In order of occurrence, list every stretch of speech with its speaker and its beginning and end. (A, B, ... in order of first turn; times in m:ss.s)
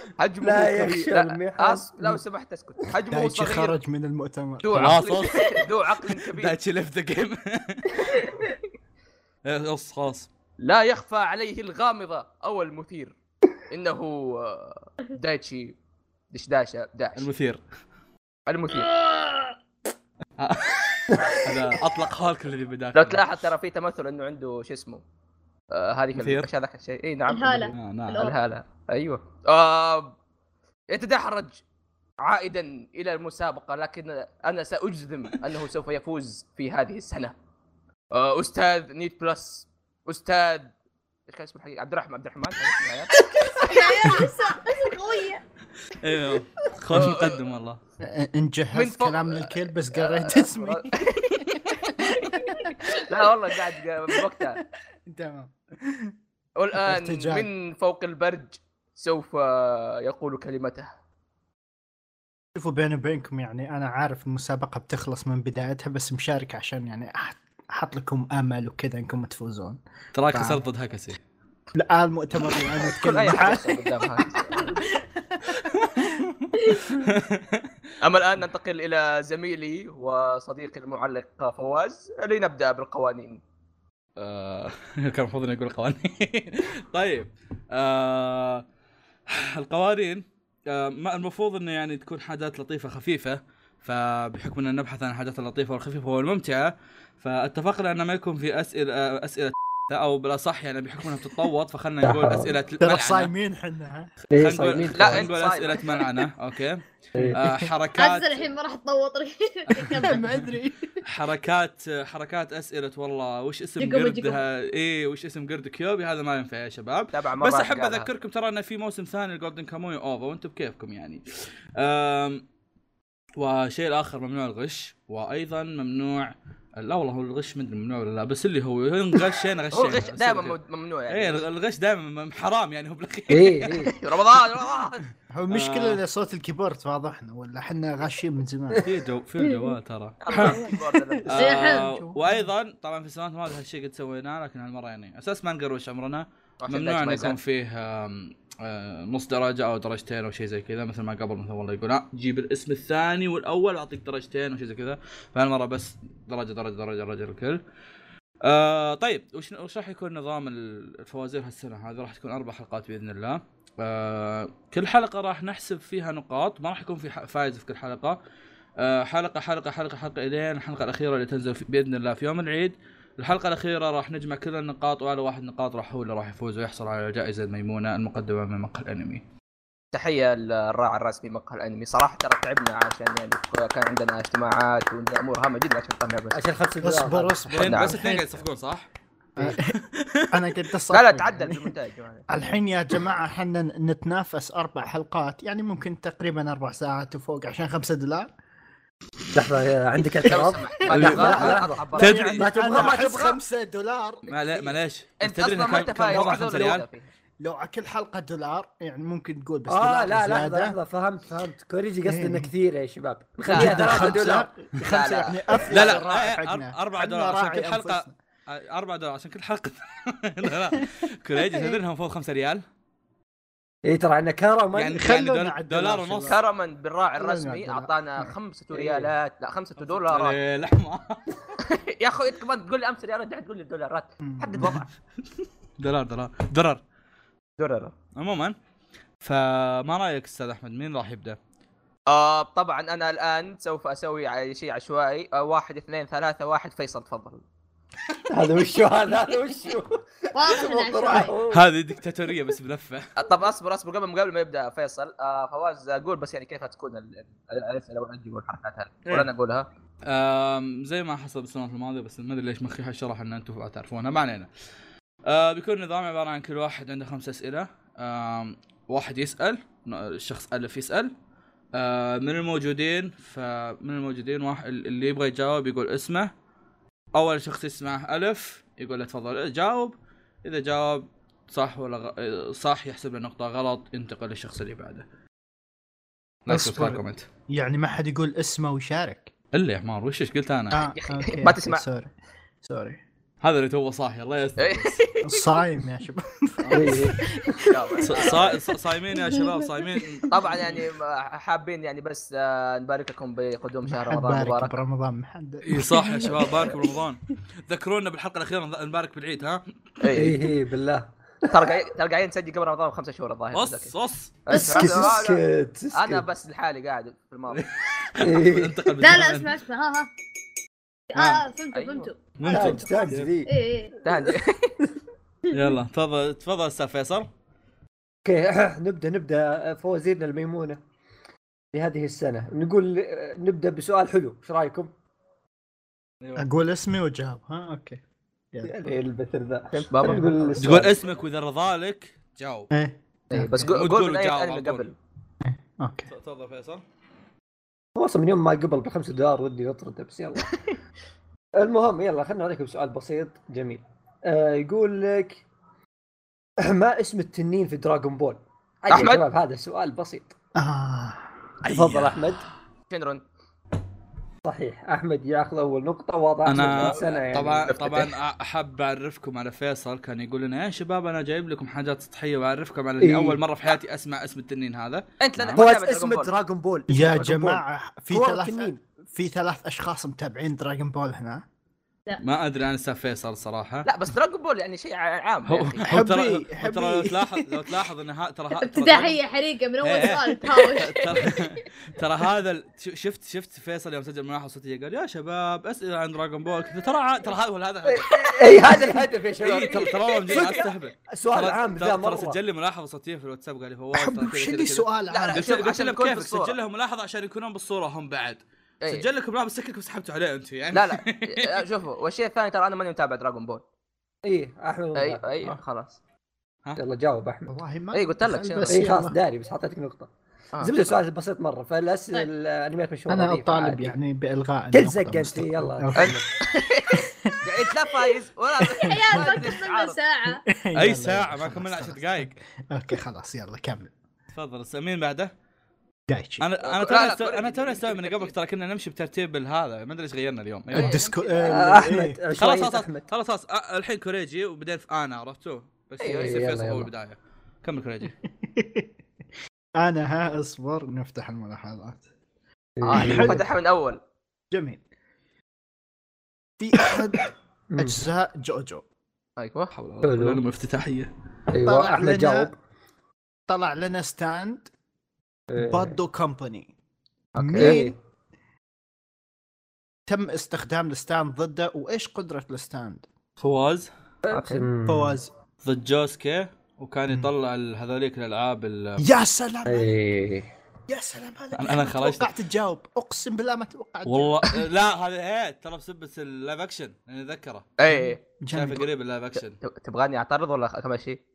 0:00.2-0:03.8 A
0:00.4-0:02.2 B
0:03.1-0:05.0 C
0:04.6-0:06.6 A
0:04.7-0:08.1 D
0:09.4-0:10.3 D
0:10.6-0:13.2 A
0:13.7-0:15.8 A
0:16.3-0:17.3 A
0:17.2-0:17.6 D
0:18.5-0:18.9 A
0:19.0-0:19.5 E
0:20.4-0:23.3 D
0:21.1-0:21.5 B
0:23.0-0:25.0 A
0:25.7-0:30.1 A
0:26.2-0:26.5 D
0:27.3-0:28.4 E
0:27.8-0:28.2 D
0:30.9-0:31.6 A
0:32.2-0:37.4 A
0:38.1-0:40.7 A
0:41.3-0:43.8 A
0:43.6-0:45.4 E
0:45.9-0:47.8 D
0:46.9-0:47.4 A
0:48.0-0:52.8 C
0:48.7-0:52.1 A
0:52.5-0:52.7 E
0:52.9-0:54.6 A
0:55.1-0:56.1 C
0:56.6-1:00.9 A
0:56.8-0:57.5 C
1:02.6-1:10.6 C
1:10.1-1:11.2 D
1:11.7-1:14.0 C
1:12.8-1:14.8 A
1:14.6-1:16.2 C
1:15.5-1:17.7 D
1:18.0-1:23.4 A
1:24.2-1:28.6 D
1:29.3-1:43.3 D
1:42.0-1:42.5 B
1:42.8-1:44.1 C
1:44.2-1:48.5 D
1:44.3-1:45.3 B
1:45.0-1:45.9 A
1:47.3-1:47.7 C
1:48.0-1:50.3 E
1:49.7-1:50.3 D
1:50.0-1:51.0 C
1:51.0-2:02.4 D
1:53.8-1:54.4 E
1:57.1-1:58.1 A
2:03.4-2:10.6 D
2:09.7-2:11.4 A
2:11.1-2:13.9 D
2:13.3-2:13.9 B
2:13.9-2:15.0 A
2:15.3-2:18.9 C
2:15.5-2:16.0 D
2:18.8-2:20.6 D
2:19.4-2:19.7 E
2:20.2-2:21.6 A
2:21.3-2:37.6 D
2:21.4-2:21.9 E
2:21.7-2:22.5 C
2:26.6-2:27.4 A
2:38.4-2:48.2 D
2:48.8-2:59.2 D
2:59.9-3:06.4 A
3:06.3-3:07.5 B
3:06.8-3:08.4 C
3:07.5-3:08.9 D
3:07.6-3:08.0 A
3:09.4-3:09.8 C
3:09.7-3:10.6 D
3:10.3-3:11.7 C
3:10.9-3:12.5 A
3:12.3-3:18.3 C
3:19.3-3:23.4 B
3:20.2-3:23.4 A
3:20.9-3:24.2 C
3:20.9-3:22.5 D
3:24.3-3:27.1 A
3:24.3-3:26.8 D
3:26.2-3:26.8 C
3:27.4-3:30.8 C
3:29.7-3:34.5 B
3:32.0-3:32.5 C
3:33.4-3:35.7 A
3:33.5-3:38.1 C
3:35.7-3:42.6 D
3:41.5-3:41.8 C
3:43.8-3:45.0 B
3:44.8-3:46.4 D
3:45.0-3:46.4 C
3:46.3-3:50.4 A
3:47.2-3:48.3 C
3:48.7-3:49.1 B
3:49.8-3:51.2 D
3:51.6-3:54.9 A
3:54.2-3:54.9 C
3:55.4-3:56.8 D
3:57.6-3:57.9 A
3:58.2-3:58.6 D
3:59.2-4:01.4 D
4:02.1-4:07.4 A
4:08.3-4:11.7 B
4:10.3-4:11.4 E
4:11.5-4:13.1 D
4:13.2-4:19.7 A
4:20.1-4:24.5 D
4:25.3-4:31.1 D
4:31.8-4:36.3 D
4:37.2-4:45.0 D
4:46.5-4:47.2 D
4:46.5-4:49.3 C
4:49.5-4:50.8 D
4:50.7-4:52.1 C
4:50.9-4:51.8 A
4:52.6-4:53.0 C
4:53.4-4:55.0 D
4:54.6-4:55.2 A
4:55.2-4:57.6 C
4:56.7-4:57.6 B
4:57.7-4:58.6 A
4:58.0-5:00.8 D
4:59.1-5:00.2 E
5:00.3-5:04.7 A
5:03.9-5:06.6 C
5:05.6-5:09.6 D
5:10.0-5:10.4 A
5:10.1-5:11.1 B
5:11.5-5:13.9 A
5:13.5-5:14.4 D
5:14.5-5:15.4 A
5:14.5-5:16.2 B
5:14.6-5:15.0 E
5:15.9-5:17.6 A
5:17.5-5:19.5 D
5:18.2-5:18.9 B
5:19.0-5:20.1 E
5:21.1-5:24.0 E
5:21.2-5:21.4 D
5:21.7-5:22.1 A
5:22.4-5:23.3 D
5:22.5-5:23.5 B
5:24.0-5:24.8 A
5:25.5-5:25.8 E
5:25.5-5:27.3 D
5:28.2-5:30.8 B
5:31.7-5:34.9 B
5:36.4-5:38.0 C
5:38.6-5:41.0 B
5:39.7-5:40.6 A
5:40.0-5:40.3 C
5:40.6-5:42.7 D
5:42.7-5:43.7 C
5:43.3-5:45.0 A
5:43.7-5:44.9 D
5:45.4-5:46.1 C
5:46.1-5:46.8 D
5:48.0-5:50.5 B
5:51.6-5:55.4 B
5:56.6-6:00.3 B
5:58.9-5:59.2 A
6:00.6-6:02.1 C
6:01.7-6:02.4 B
6:02.9-6:03.2 A
6:04.4-6:07.7 B
6:06.4-6:15.6 D
6:06.7-6:08.1 A
6:13.0-6:13.4 B
6:15.2-6:16.3 A
6:15.6-6:18.8 B
6:16.9-6:21.4 C
6:22.2-6:23.9 D
6:23.9-6:25.9 A
6:25.5-6:29.2 D
6:25.9-6:27.6 C
6:28.6-6:31.4 E
6:29.8-6:51.6 D
6:37.8-6:42.4 B
6:39.5-6:40.6 A
6:43.9-6:45.5 C
6:45.1-6:46.6 A
6:50.7-6:53.6 A
6:54.3-6:55.2 B
6:55.0-6:56.0 A
6:56.8-6:57.6 B
6:57.5-6:59.2 C
6:57.9-6:58.9 A
6:58.7-7:00.1 B
7:00.6-7:04.0 B
7:03.1-7:06.2 C
7:04.7-7:06.3 B
7:06.0-7:10.0 A
7:08.6-7:10.4 E
7:10.3-7:13.9 C
7:10.8-7:12.3 D
7:14.3-7:15.3 D
7:16.1-7:16.4 C
7:16.4-7:21.0 D
7:16.6-7:18.3 A
7:20.7-7:21.8 A
7:20.7-7:22.2 C
7:21.4-7:23.1 B
7:22.4-7:28.1 D
7:26.0-7:26.9 B
7:28.3-7:28.9 C
7:29.8-7:32.0 C
7:32.8-7:33.4 B
7:32.8-7:34.0 A
7:33.0-7:33.5 C
7:34.5-7:34.8 C
7:36.6-7:38.8 C
7:37.7-7:38.0 B
7:39.4-7:39.7 A
7:39.7-7:41.1 D
7:40.0-7:40.4 B
7:41.5-7:42.6 B
7:41.6-7:42.5 C
7:43.5-7:44.7 C
7:45.5-7:46.0 B
7:45.6-7:46.7 C
7:47.3-7:47.8 A
7:47.4-7:48.0 C
7:47.5-7:48.0 B
7:50.1-7:53.1 C
7:53.4-7:53.9 D
7:54.3-7:55.2 B
7:54.3-7:54.6 A
7:54.8-7:55.3 C
7:55.6-7:59.0 D
7:59.0-7:59.9 C
7:59.7-8:00.5 B
8:00.9-8:04.6 C
8:01.6-8:02.3 D
8:04.0-8:07.7 D
8:07.8-8:08.2 A
8:07.9-8:08.8 C
8:08.5-8:09.6 D
8:09.6-8:11.2 A